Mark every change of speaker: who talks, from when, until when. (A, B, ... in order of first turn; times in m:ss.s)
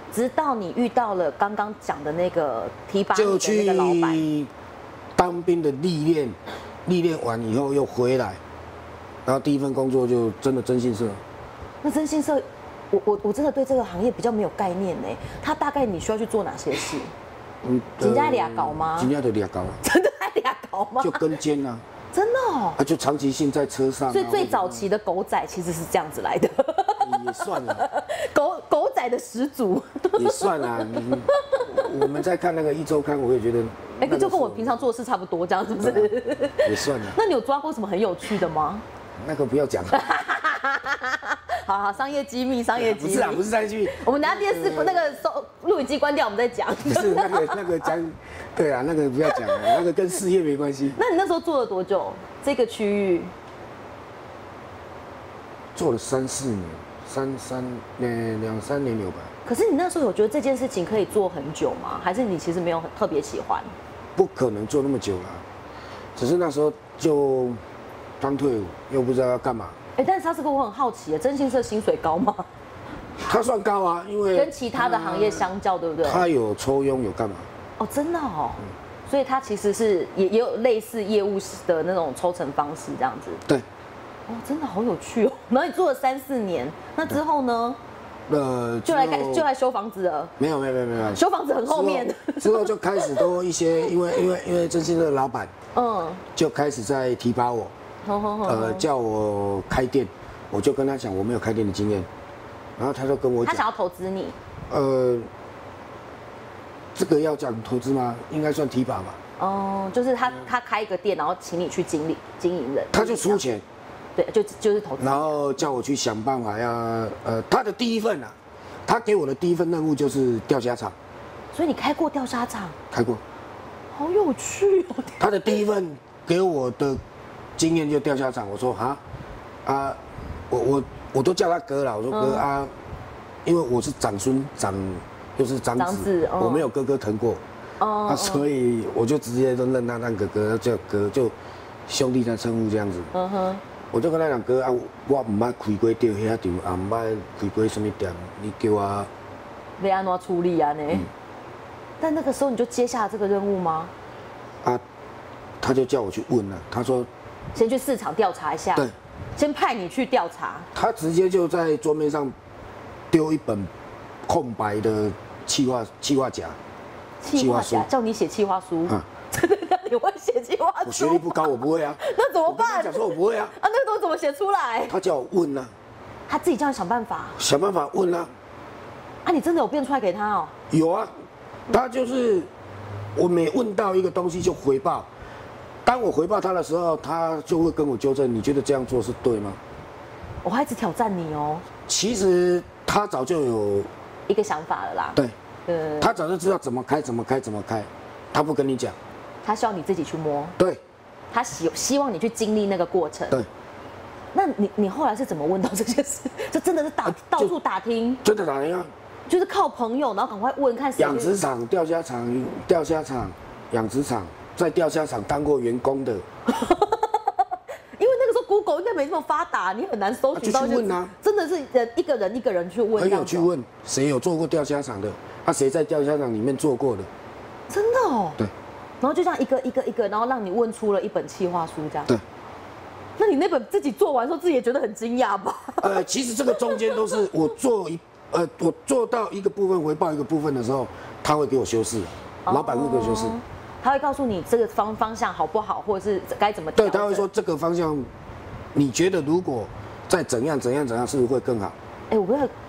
0:00.1-0:04.3 A
0:03.2-0:04.5 B
0:05.2-0:08.4 B
0:09.2-0:11.2 B
0:11.8-0:17.1 A
0:17.6-0:19.8 B
0:18.0-0:19.1 A
0:19.8-0:21.3 A
0:21.0-0:21.8 B
0:22.1-0:22.8 A
0:22.8-0:24.8 B
0:24.1-0:32.1 A
0:27.0-0:27.8 B
0:30.2-0:34.8 B
0:34.0-0:38.8 A
0:35.8-0:36.1 B
0:36.6-0:37.2 B
0:39.2-0:40.0 B
0:39.9-0:47.9 A
0:42.8-0:45.2 B
0:46.8-0:51.0 B
0:49.3-0:49.8 A
0:51.0-0:53.3 A
0:55.8-0:59.3 B
0:59.4-1:03.7 A
1:04.2-1:05.4 B
1:06.2-1:07.6 B
1:08.2-1:09.8 B
1:10.0-1:12.5 A
1:13.2-1:15.5 B
1:14.3-1:16.3 A
1:16.0-1:17.5 B
1:17.8-1:23.4 A
1:24.3-1:27.8 A
1:28.3-1:29.5 B
1:28.8-1:30.3 A
1:30.4-1:35.5 B
1:31.1-1:33.3 A
1:35.8-1:36.2 A
1:36.4-1:37.7 B
1:38.0-1:38.9 A
1:38.5-1:42.1 B
1:42.8-1:43.6 B
1:43.4-1:44.4 A
1:44.7-1:45.3 B
1:46.9-1:49.2 B
1:49.4-1:53.4 A
1:52.9-1:53.6 B
1:54.2-1:55.7 A
1:55.0-1:58.3 B
1:58.9-2:01.0 B
2:01.5-2:02.8 A
2:02.9-2:03.2 B
2:03.9-2:05.6 A
2:05.2-2:07.0 B
2:07.6-2:09.0 B
2:09.6-2:10.0 B
2:10.5-2:12.7 B
2:12.1-2:12.4 A
2:13.4-2:17.4 B
2:15.8-2:16.7 A
2:17.8-2:18.4 A
2:18.1-2:21.3 B
2:21.9-2:23.1 B
2:23.1-2:23.6 A
2:23.9-2:29.1 B
2:29.8-2:31.1 A
2:32.0-2:33.9 A
2:35.6-2:37.1 B
2:37.6-2:40.7 A
2:40.7-2:42.3 B
2:43.1-2:43.7 B
2:44.3-2:46.6 B
2:47.2-2:55.0 A
2:47.4-2:47.9 B
2:50.8-2:53.6 B
2:54.9-2:55.7 B
2:56.3-2:57.4 A
2:57.4-2:58.3 B
2:59.2-3:00.5 A
3:00.7-3:01.1 B
3:01.7-3:02.5 B
3:03.2-3:05.1 B
3:05.8-3:09.6 B
3:10.4-3:11.6 A
3:11.9-3:13.9 B
3:14.3-3:16.2 A
3:16.0-3:19.0 B
3:19.4-3:20.6 A
3:21.3-3:23.4 A
3:24.3-3:28.2 A
3:28.2-3:28.9 B
3:29.3-3:31.3 A
3:31.0-3:36.2 B
3:36.5-3:37.4 A
3:38.0-3:43.5 A
3:40.3-3:41.1 B
3:43.0-3:47.1 B
3:47.7-3:48.4 A
3:49.0-3:52.1 A
3:53.2-3:57.2 A
3:55.8-4:03.4 B
4:02.5-4:07.3 A
4:06.8-4:08.1 B
4:08.7-4:11.8 B
4:12.1-4:12.5 A